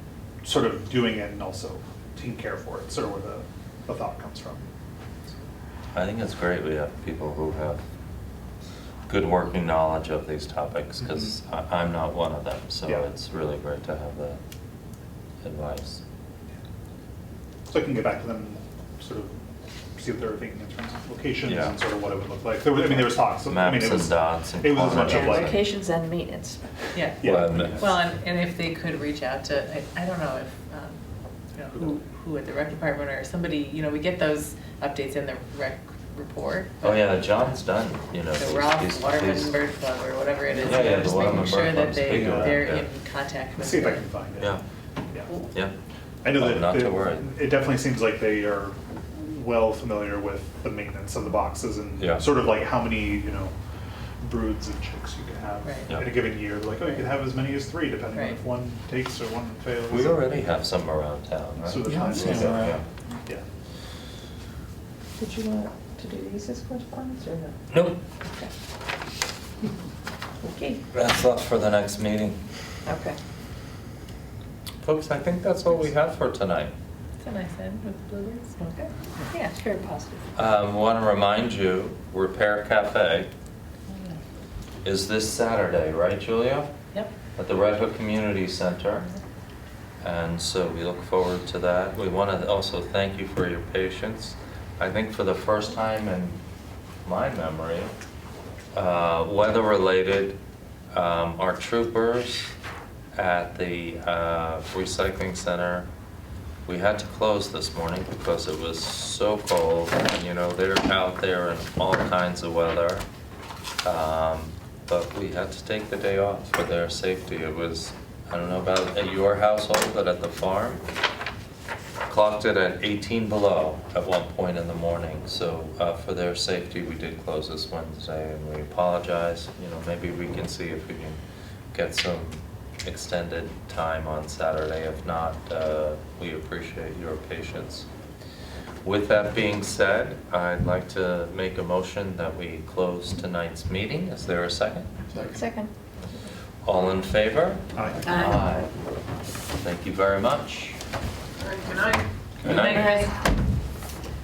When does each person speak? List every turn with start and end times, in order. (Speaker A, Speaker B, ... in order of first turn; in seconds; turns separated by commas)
Speaker A: 0.4-4.7, Speaker B: 5.9-7.8, Speaker B: 9.1-14.4, Speaker A: 11.0-11.3, Speaker B: 15.4-16.0, Speaker A: 17.7-19.4, Speaker A: 19.9-25.6, Speaker B: 21.4-21.8, Speaker B: 23.2-25.6, Speaker C: 24.8-26.6, Speaker D: 26.9-31.0, Speaker A: 27.2-27.9, Speaker B: 27.2-27.9, Speaker D: 31.5-37.1, Speaker B: 36.8-39.6, Speaker D: 38.3-44.0, Speaker B: 40.6-42.9, Speaker A: 42.0-42.7, Speaker A: 43.6-44.6, Speaker A: 46.2-53.5, Speaker B: 46.3-47.3, Speaker B: 52.0-52.3, Speaker A: 54.2-60.3, Speaker D: 55.6-56.0, Speaker D: 58.1-58.4, Speaker B: 59.9-62.8, Speaker A: 61.6-63.4, Speaker C: 61.8-62.8, Speaker C: 65.2-67.6, Speaker B: 67.7-68.0, Speaker C: 70.4-70.8, Speaker B: 70.9-72.4, Speaker C: 72.8-73.2, Speaker B: 74.8-76.7, Speaker D: 77.2-78.6, Speaker C: 78.6-80.2, Speaker B: 80.3-83.3, Speaker D: 83.9-84.2, Speaker B: 84.8-86.7, Speaker B: 87.3-89.1, Speaker B: 90.0-96.4, Speaker B: 97.0-97.9, Speaker B: 98.7-100.4, Speaker B: 100.9-102.5, Speaker B: 103.1-105.9, Speaker B: 106.7-113.1, Speaker B: 113.8-120.8, Speaker B: 122.1-131.2, Speaker B: 131.7-137.9, Speaker B: 138.8-144.9, Speaker C: 145.2-145.7, Speaker B: 146.6-148.7, Speaker A: 147.7-148.3, Speaker B: 149.6-150.8, Speaker D: 151.7-153.1, Speaker B: 152.4-153.1, Speaker C: 152.4-153.1